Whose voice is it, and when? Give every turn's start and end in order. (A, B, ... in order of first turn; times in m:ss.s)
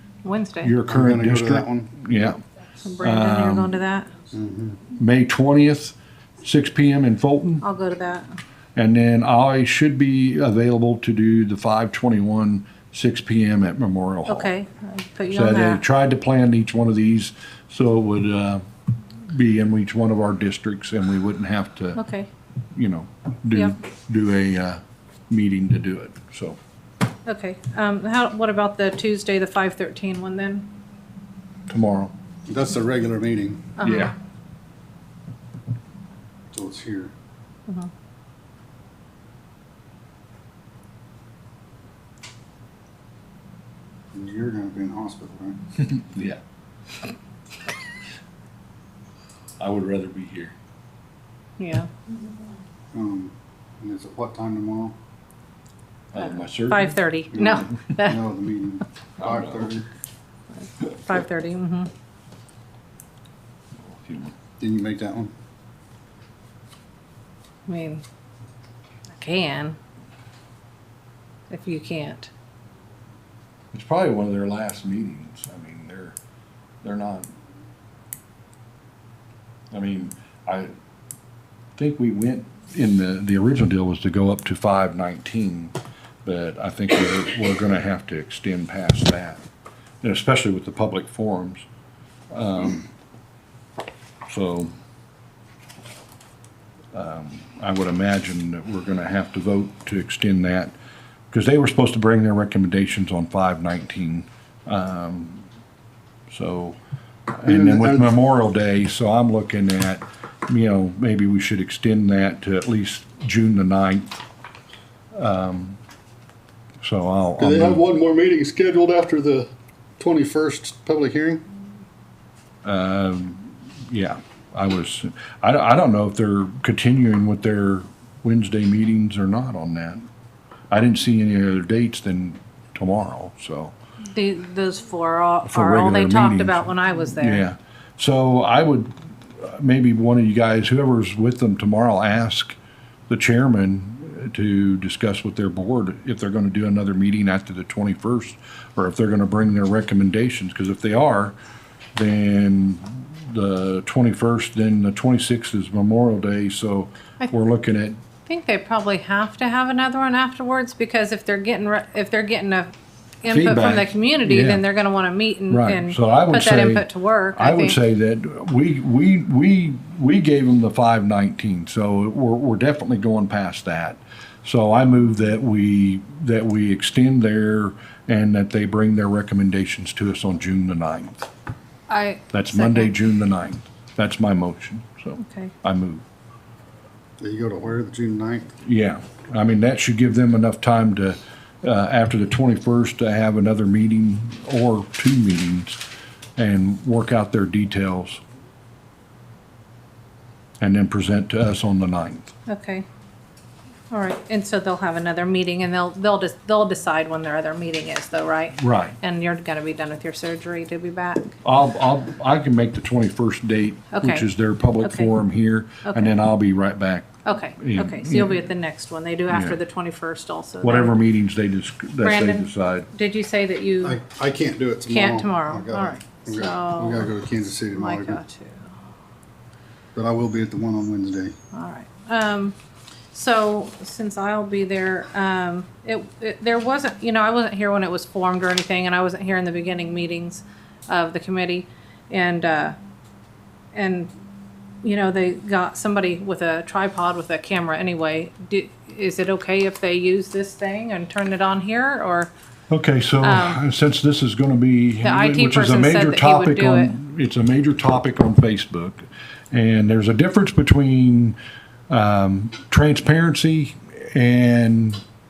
0:00.2-0:00.8 A
0:00.6-0:02.4 B
0:00.9-0:02.0 C
0:02.8-0:04.1 A
0:03.0-0:03.8 B
0:04.3-0:04.8 C
0:04.9-0:07.6 B
0:07.6-0:08.4 A
0:08.8-0:14.5 B
0:14.3-0:15.8 A
0:15.3-0:18.6 B
0:19.3-0:22.0 B
0:22.0-0:22.3 A
0:22.8-0:26.6 B
0:27.3-0:30.7 A
0:31.7-0:32.1 B
0:32.5-0:33.7 C
0:33.8-0:34.1 A
0:33.8-0:34.1 B
0:36.5-0:37.1 C
0:44.1-0:45.6 C
0:45.9-0:46.4 B
0:49.6-0:50.6 B
0:51.6-0:51.9 A
0:52.9-0:55.0 C
0:56.1-0:57.7 B
0:56.6-0:58.2 A
0:57.3-0:59.9 C
0:59.2-0:59.7 B
1:00.8-1:01.9 A
1:03.8-1:04.4 B
1:04.6-1:05.3 C
1:07.7-1:08.0 A
1:09.2-1:09.8 A
1:11.5-1:12.3 A
1:13.7-1:16.2 B
1:16.8-1:17.3 B
1:19.7-1:20.7 B
1:21.8-1:29.4 B
1:30.0-1:31.7 B
1:32.3-1:32.9 B
1:34.3-1:34.7 B
1:36.9-1:40.7 B
1:41.3-1:45.4 B
1:46.3-1:46.8 B
1:47.3-1:54.2 B
1:47.5-1:48.1 C
1:55.2-1:55.8 B
1:56.8-1:57.8 B
1:57.4-2:01.4 C
2:02.6-2:10.0 B
2:10.7-2:13.7 B
2:14.1-2:17.4 A
2:15.5-2:22.6 B
2:23.1-2:31.4 B
2:32.0-2:38.0 B
2:38.3-2:47.8 A
2:43.3-2:44.6 B
2:45.5-3:01.3 B
3:01.9-3:02.9 A
3:02.3-3:06.0 B
3:05.2-3:05.5 A
3:07.2-3:08.5 C
3:08.6-3:15.8 B
3:16.4-3:18.2 B
3:20.6-3:22.3 B
3:22.5-3:22.8 A
3:23.9-3:31.4 A
3:28.6-3:29.0 B
3:31.4-3:38.5 B
3:33.9-3:34.3 A
3:34.8-3:35.1 A
3:35.8-3:36.1 A
3:37.2-3:41.0 A
3:39.3-3:39.6 B
3:40.6-3:42.9 B
3:42.0-3:44.0 A
3:43.8-3:48.2 C
3:44.9-3:47.1 A
3:47.7-3:48.7 A
3:50.0-3:51.4 C
3:51.5-3:52.6 A
3:53.1-4:02.8 A
4:03.7-4:04.1 A
4:04.8-4:12.3 A
4:12.7-4:21.4 B
4:13.2-4:13.6 A
4:15.0-4:17.0 A
4:21.9-4:25.0 B